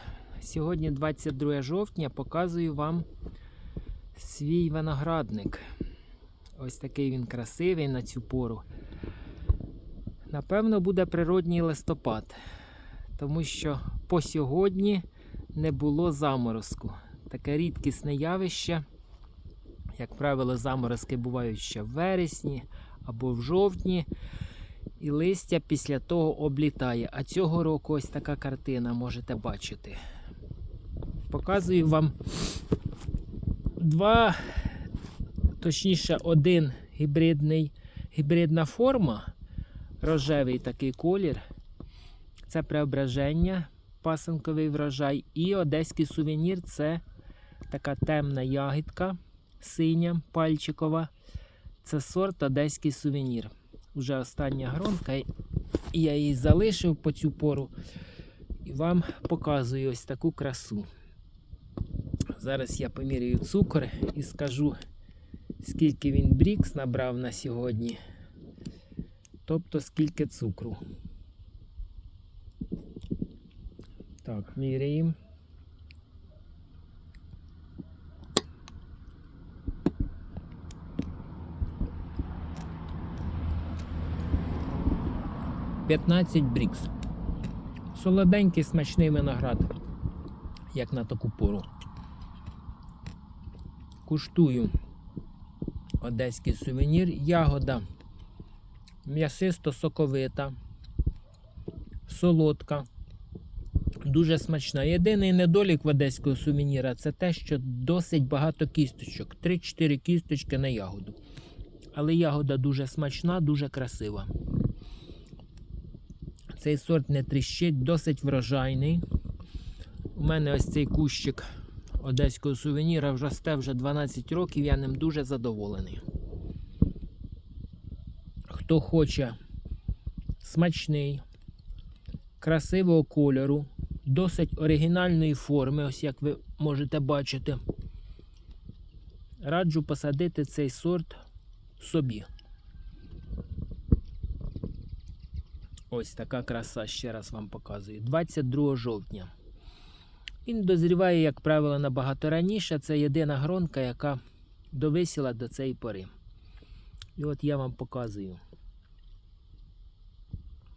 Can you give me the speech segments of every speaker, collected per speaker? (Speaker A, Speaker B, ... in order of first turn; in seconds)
Speaker A: 0.4-3.0, 4.1-5.6, 6.6-8.6, 10.3-12.3, 13.2-18.8, 20.0-24.1, 25.0-30.0, 31.3-32.1, 33.8-34.8, 35.6-39.3, 40.0-41.4, 42.5-47.0, 47.7-51.1, 51.8-55.3, 55.9-57.7, 58.6-60.9, 62.3-64.8, 65.6-68.0, 69.4-70.8, 74.2-75.2, 85.9-86.9, 87.9-89.7, 90.7-91.7, 94.0-94.7, 96.0-97.8, 99.0-100.5, 102.1-102.9, 104.0-111.2, 111.9-114.3, 116.5-119.0, 120.1-121.5, 122.0-126.0, 128.5-129.3, 130.4-131.2, 132.4-137.6, 139.4-141.2, 141.8-142.3, 145.9-149.3, 150.4-154.2, 154.7-156.1, 157.2-158.4